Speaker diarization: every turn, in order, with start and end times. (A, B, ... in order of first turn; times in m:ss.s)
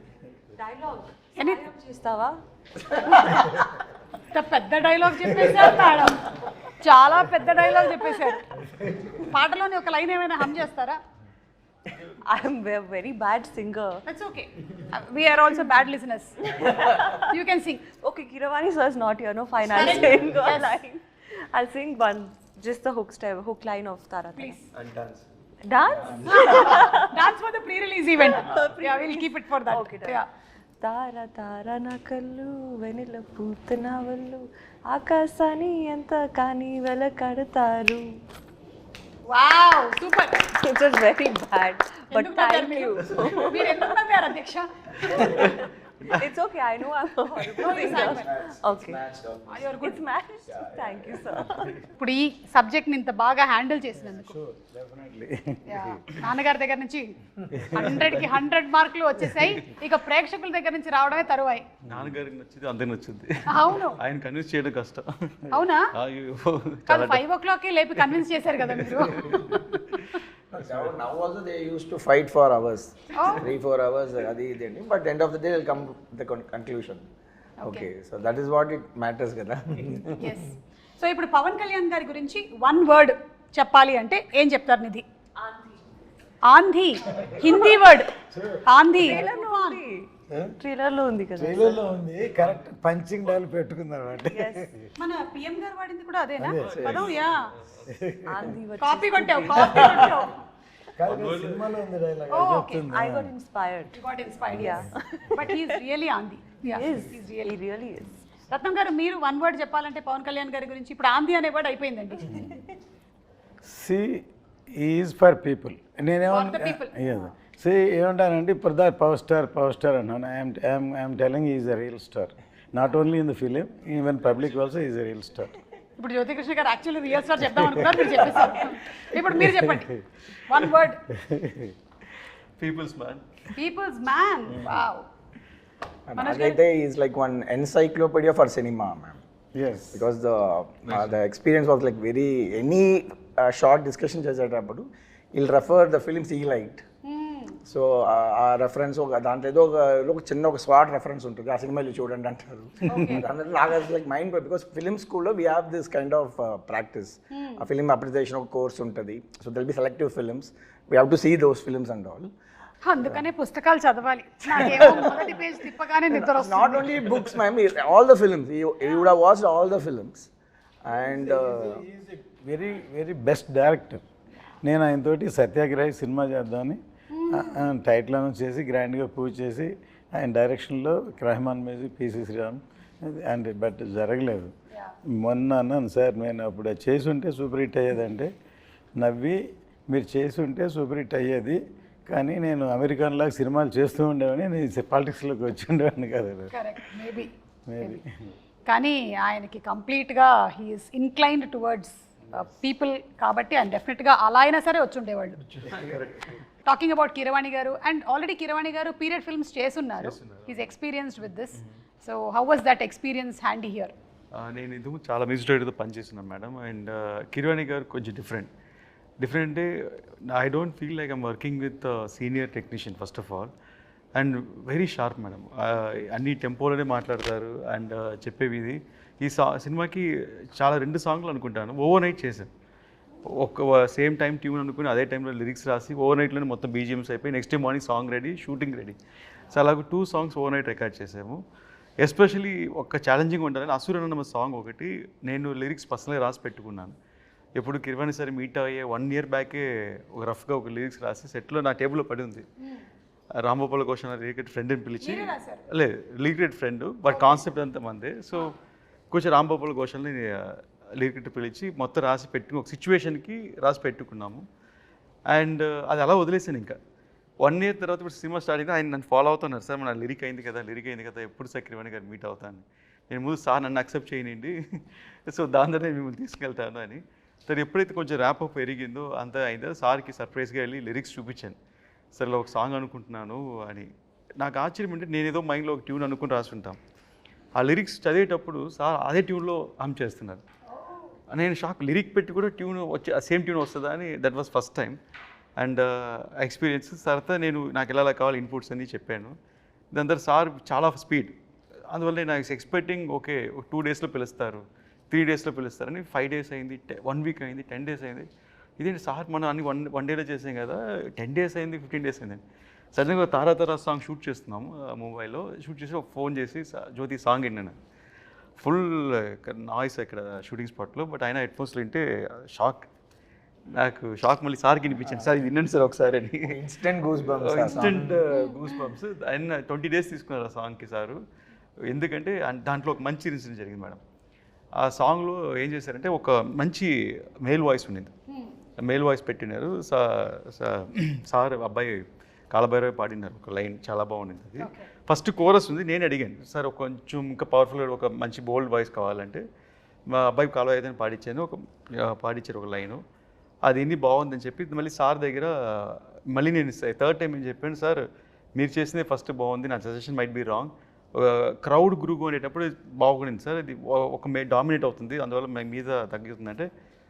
0:00.5-0:02.4 A
0:01.4-0:01.6 B
0:02.9-0:03.4 A
0:03.0-0:08.4 B
0:07.8-0:08.3 A
0:09.2-0:11.0 B
0:12.3-0:14.0 A
0:14.0-0:16.7 B
0:16.5-0:17.4 A
0:17.3-0:17.8 B
0:17.9-0:24.6 A
0:19.7-0:20.8 B
0:24.4-0:24.7 B
0:24.7-0:25.2 C
0:25.6-0:27.2 A
0:25.9-0:26.3 C
0:26.2-0:30.3 B
0:28.2-0:30.2 A
0:30.8-0:38.1 A
0:39.3-0:40.4 B
0:40.5-0:44.0 A
0:42.1-0:45.4 B
0:45.4-0:49.0 A
0:47.6-0:48.3 B
0:48.2-0:49.5 D
0:49.5-0:50.0 B
0:49.6-0:51.8 A
0:50.9-0:51.2 E
0:51.9-0:54.3 B
0:54.0-0:56.0 E
0:55.7-0:57.2 B
0:57.5-0:58.4 E
0:57.7-1:01.7 B
1:01.8-1:07.2 C
1:01.9-1:02.1 E
1:03.5-1:04.0 B
1:05.5-1:05.9 B
1:06.9-1:10.2 B
1:08.0-1:09.6 C
1:10.5-1:17.0 D
1:13.1-1:13.5 B
1:17.6-1:17.9 B
1:17.6-1:20.3 D
1:20.2-1:25.0 B
1:26.4-1:28.1 B
1:27.1-1:27.4 E
1:27.5-1:27.8 A
1:28.3-1:28.6 E
1:28.6-1:29.8 B
1:29.0-1:30.1 A
1:30.3-1:30.5 E
1:30.6-1:31.8 A
1:31.4-1:34.8 E
1:34.2-1:34.7 A
1:35.0-1:37.5 B
1:36.4-1:36.9 E
1:36.6-1:38.2 C
1:36.8-1:37.1 D
1:37.9-1:38.6 E
1:38.2-1:40.1 A
1:38.8-1:40.4 B
1:41.0-1:43.3 E
1:41.0-1:41.7 C
1:42.3-1:42.8 B
1:42.9-1:45.8 A
1:43.9-1:44.8 B
1:45.3-1:47.5 B
1:46.7-1:48.2 A
1:48.5-1:52.3 B
1:52.3-1:52.6 E
1:53.6-2:05.5 E
1:56.2-1:57.0 B
2:06.0-2:11.0 B
2:07.4-2:08.1 E
2:09.2-2:09.8 E
2:11.1-2:11.7 E
2:12.6-2:13.5 C
2:13.5-2:15.0 B
2:16.1-2:19.2 D
2:16.2-2:16.6 B
2:19.5-2:20.1 E
2:19.9-2:26.8 D
2:27.0-2:27.6 B
2:27.7-2:42.3 D
2:32.9-2:33.2 B
2:37.3-2:37.6 B
2:42.8-2:46.9 B
2:44.5-2:45.4 D
2:46.1-2:50.3 D
2:50.8-2:51.8 D
2:50.9-2:54.0 E
2:54.6-2:56.8 E
2:57.1-2:57.6 B
2:57.3-3:04.5 E
3:05.1-3:08.3 E
3:09.0-3:16.6 E
3:16.5-3:18.0 B
3:17.7-3:18.2 E
3:18.7-3:25.4 B
3:25.4-3:26.4 C
3:26.6-3:33.9 B
3:30.0-3:30.7 C
3:34.3-3:38.5 C
3:39.2-3:43.5 C
3:44.1-3:52.5 C
3:53.2-3:59.0 C
3:59.5-4:01.4 C
4:02.0-4:06.9 C
4:07.6-4:12.4 C
4:13.4-4:18.5 C
4:15.0-4:15.6 B
4:17.1-4:17.5 B
4:19.1-4:24.5 C
4:25.3-4:26.8 C
4:27.4-4:41.6 C
4:42.1-4:46.8 C
4:47.6-4:50.4 C
4:50.7-4:51.1 B
4:51.3-4:55.0 C
4:55.6-4:59.4 C
4:59.9-5:01.3 C
5:01.9-5:12.4 C
5:12.9-5:17.8 C
5:18.6-5:22.9 C
5:23.8-5:26.6 C
5:26.5-5:28.2 D
5:27.2-5:31.2 C
5:28.3-5:28.9 B
5:31.9-5:34.0 C
5:34.8-5:36.9 C
5:37.4-5:38.1 C
5:38.3-5:38.5 B
5:38.8-5:49.4 C
5:44.6-5:44.9 B
5:50.1-5:53.0 C
5:53.6-5:58.0 C
5:58.5-6:06.7 C